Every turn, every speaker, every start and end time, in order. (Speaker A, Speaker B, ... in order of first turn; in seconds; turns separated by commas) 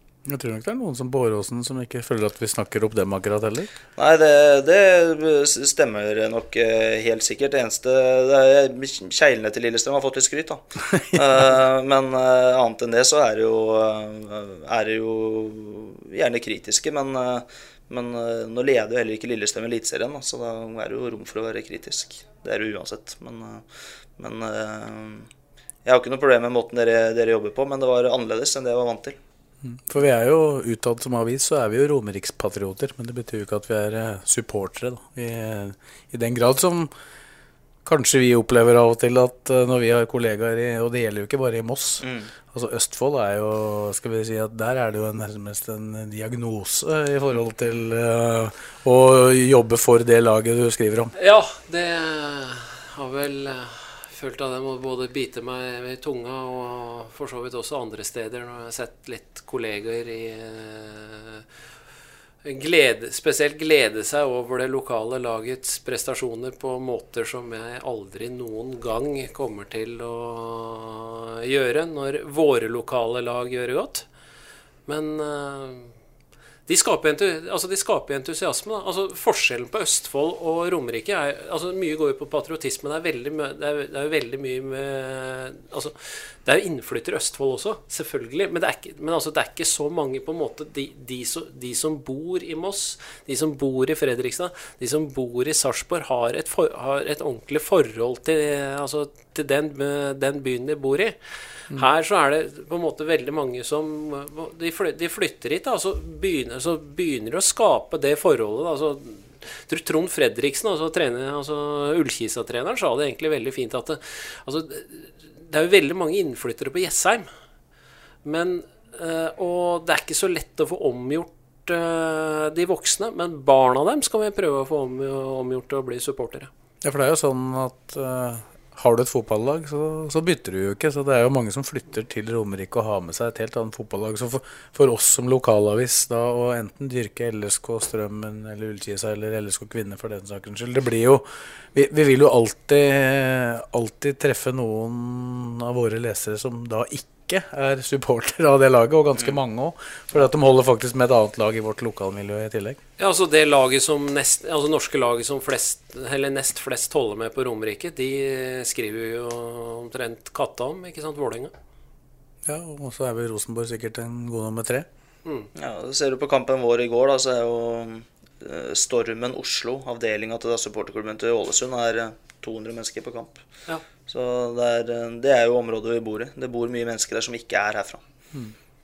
Speaker A: 0.3-3.7, Speaker B: 4.0-23.6, Speaker B: 24.2-25.3, Speaker B: 25.8-29.2, Speaker A: 29.6-36.9, Speaker A: 37.8-51.1, Speaker B: 42.0-42.3, Speaker C: 51.1-61.4, Speaker C: 62.4-74.0, Speaker C: 74.8-75.9, Speaker C: 76.7-117.3, Speaker C: 118.2-126.5, Speaker A: 126.8-152.8, Speaker C: 153.0-161.5, Speaker A: 162.4-164.8, Speaker B: 165.6-173.4, Speaker B: 174.1-178.0